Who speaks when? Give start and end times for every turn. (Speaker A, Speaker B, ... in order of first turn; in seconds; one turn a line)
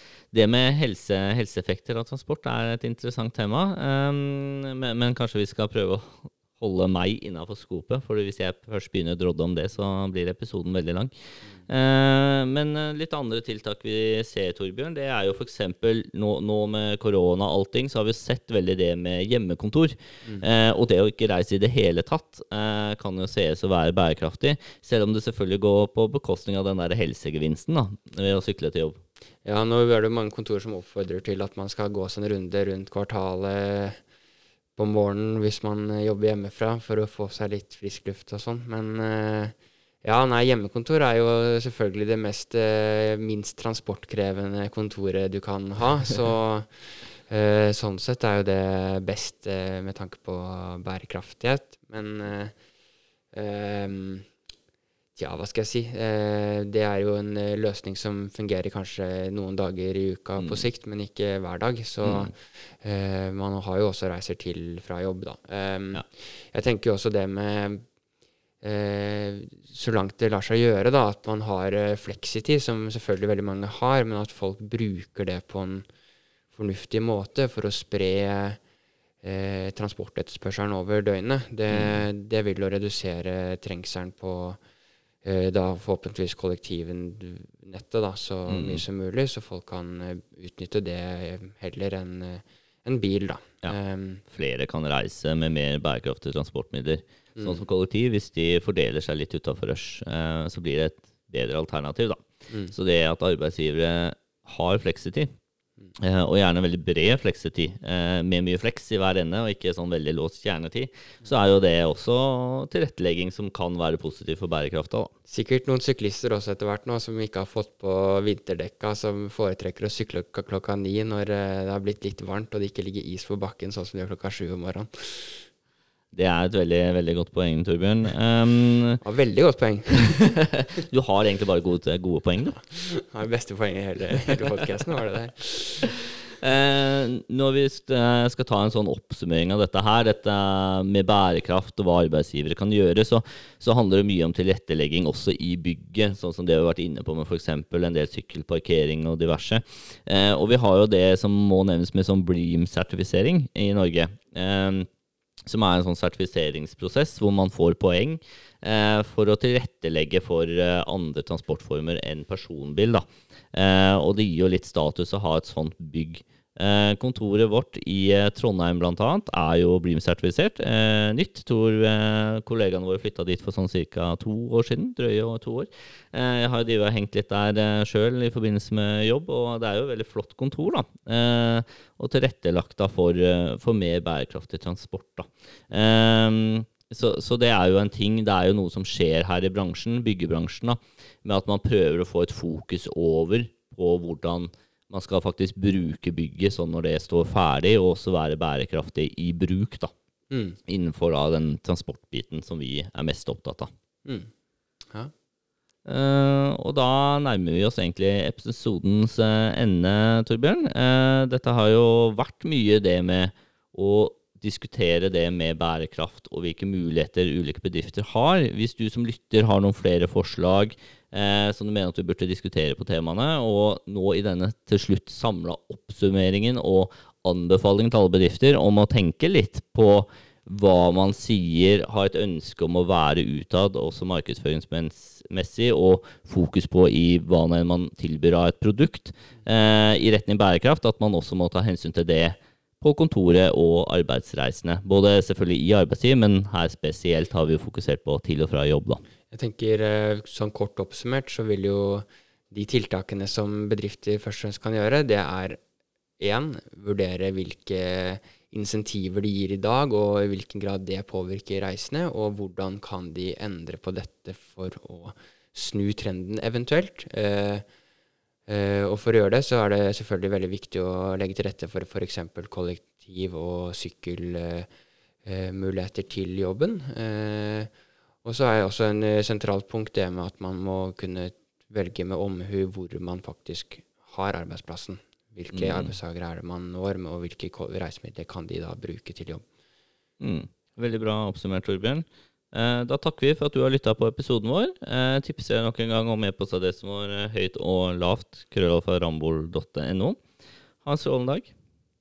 Speaker A: 0.3-11.1
Speaker A: 11.7-29.0
Speaker B: 29.4-34.0
Speaker B: 34.8-52.5
Speaker B: 53.3-54.3
Speaker B: 55.1-67.8
Speaker A: 60.4-60.7
Speaker A: 62.0-62.3
Speaker B: 68.6-75.8
Speaker B: 76.5-78.6
Speaker B: 79.2-84.6
Speaker A: 81.7-82.0
Speaker B: 85.2-94.2
Speaker A: 88.5-88.8
Speaker A: 94.3-105.3
Speaker B: 97.4-97.6
Speaker A: 106.0-115.1
Speaker B: 115.3-125.5
Speaker A: 126.1-129.0
Speaker B: 129.0-130.3
Speaker A: 130.2-132.6
Speaker B: 132.7-135.9
Speaker A: 136.3-154.9
Speaker A: 155.5-199.9
Speaker B: 200.3-200.6
Speaker A: 200.7-203.7
Speaker B: 204.1-204.3
Speaker A: 205.8-249.0
Speaker B: 249.3-255.6
Speaker B: 256.2-267.6
Speaker B: 268.5-274.7
Speaker B: 275.2-277.7
Speaker B: 278.2-289.4
Speaker A: 285.5-285.9
Speaker A: 290.2-300.2
Speaker A: 300.8-301.5